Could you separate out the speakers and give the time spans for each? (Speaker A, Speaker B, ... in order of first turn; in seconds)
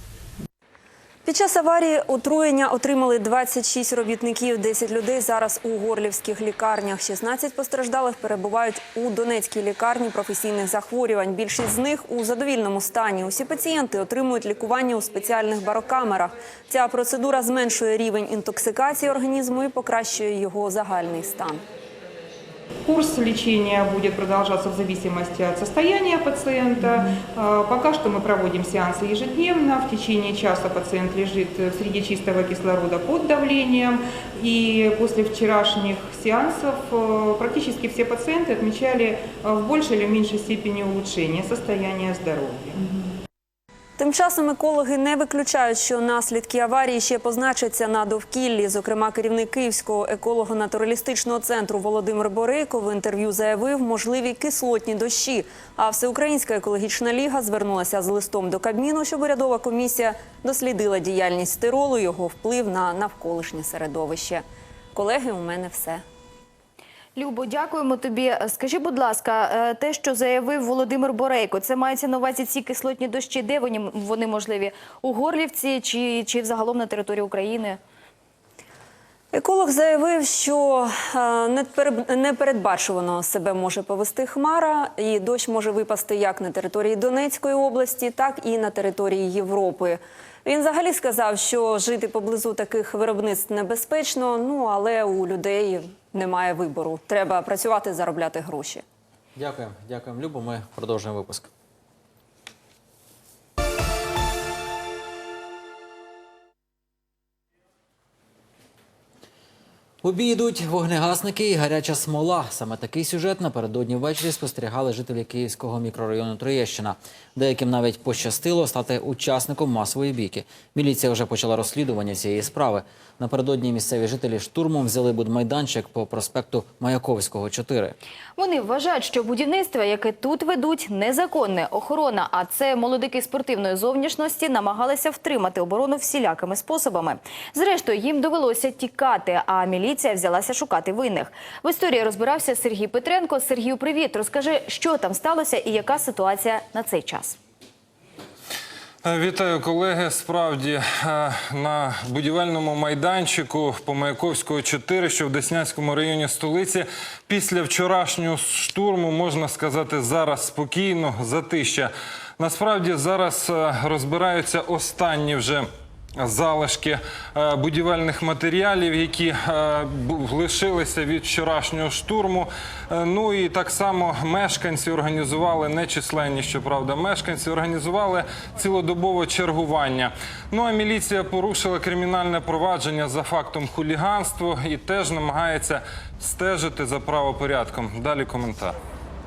Speaker A: 1.2-21.6, 44.0-66.0, 79.3-98.8
Speaker B: 22.9-42.8
Speaker C: 67.2-77.8, 128.4-147.4
Speaker D: 99.3-101.5, 110.0-128.0
Speaker E: 149.0-165.7, 166.2-188.8